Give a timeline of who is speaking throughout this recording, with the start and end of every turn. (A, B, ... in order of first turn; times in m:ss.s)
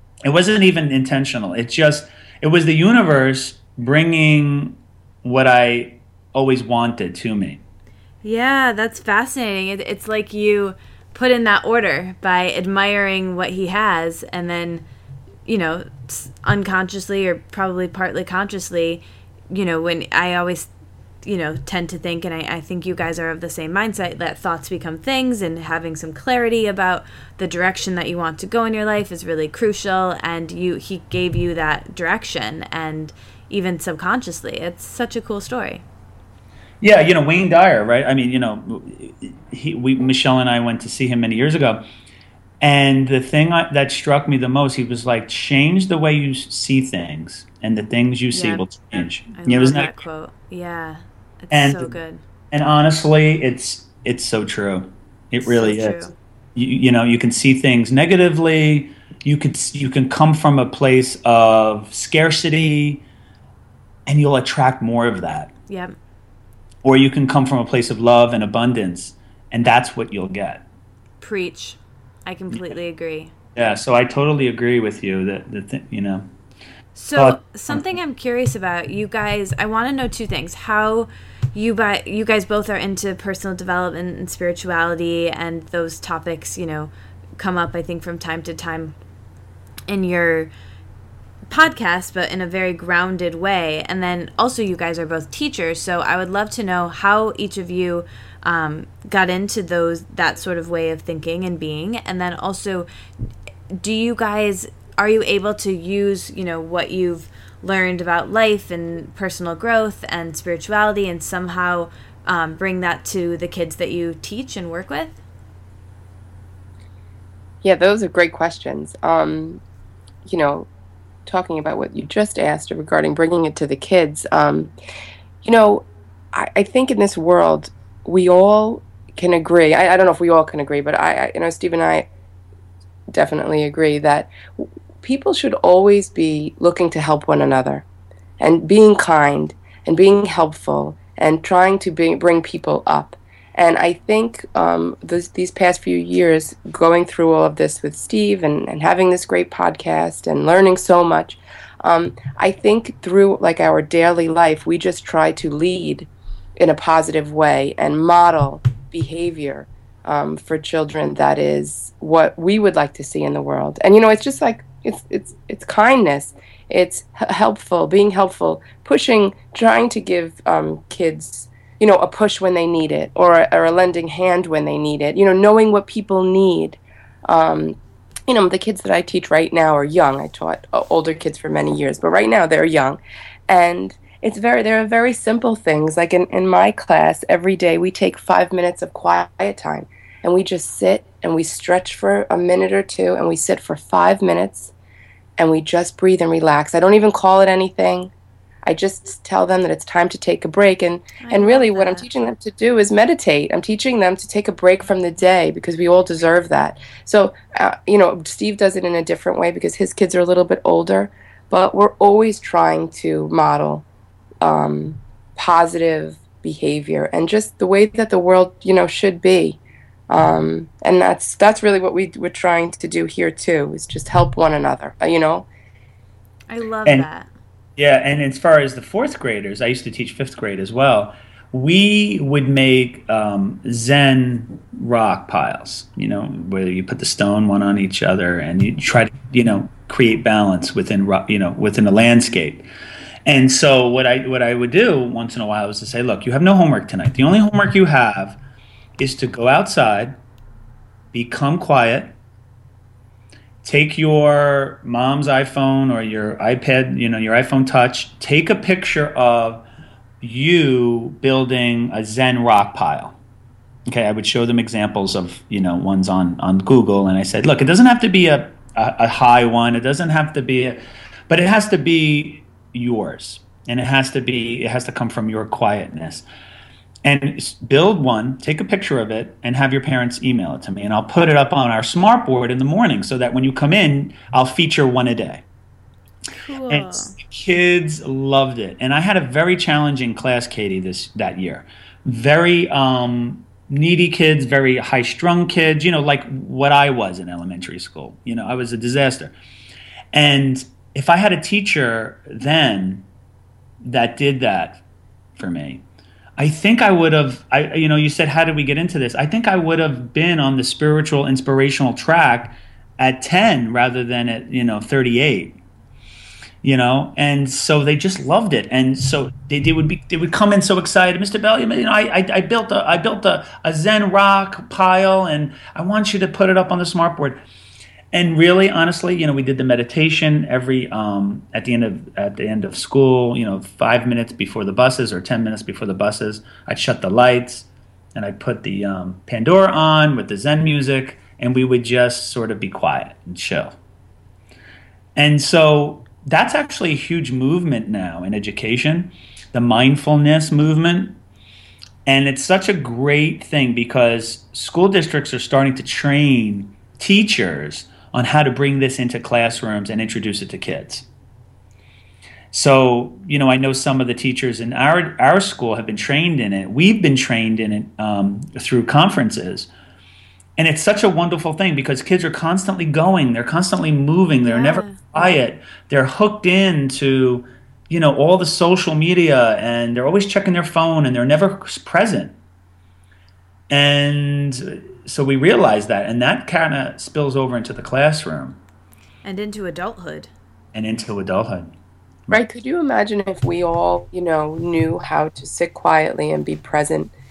0:00.2-0:07.6 A
0:08.2-0:14.8 B
0:15.5-0:20.7 B
0:21.2-0:35.8 B
0:36.8-0:41.8 A
0:42.6-0:49.9 A
0:48.3-0:48.6 B
0:49.3-0:52.2 B
0:51.5-0:52.0 A
0:52.5-0:56.0 A
0:55.4-0:56.1 B
0:56.6-1:03.0 A
1:04.1-1:05.5 A
1:05.7-1:06.0 B
1:06.8-1:10.6 A
1:11.2-1:13.3 B
1:13.6-1:16.3 A
1:17.0-1:29.0 B
1:17.2-1:18.0 A
1:29.9-1:30.5 B
1:31.5-1:42.9 B
1:43.7-1:55.2 B
1:57.6-1:59.6 C
2:00.3-2:00.7 C
2:01.3-2:04.7 C
2:05.4-2:12.1 C
2:13.1-2:17.8 C
2:18.4-3:14.7 C
3:15.4-3:18.1 C
3:18.6-3:33.8 C
3:21.2-3:22.1 B
3:34.4-3:45.5 C
3:46.5-3:47.3 B
3:47.8-4:02.7 A
4:03.2-4:08.4 A
4:09.0-4:10.2 A
4:11.1-4:12.2 A
4:13.6-4:19.6 A
4:20.2-4:23.2 A
4:23.9-4:36.2 A
4:37.0-4:45.4 A
4:46.4-4:47.2 B
4:46.7-4:59.3 A
5:00.1-5:03.0 A
5:03.8-5:04.8 A
5:05.4-5:05.8 A
5:06.4-5:15.6 A
5:16.6-5:27.4 A
5:28.1-5:43.8 A
5:45.2-5:51.2 A
5:52.1-6:01.1 A
6:02.5-6:09.7 A
6:10.6-6:22.3 A
6:14.4-6:15.3 B
6:23.7-6:28.6 A
6:29.2-6:30.3 B
6:30.7-6:31.7 A
6:32.3-6:37.1 C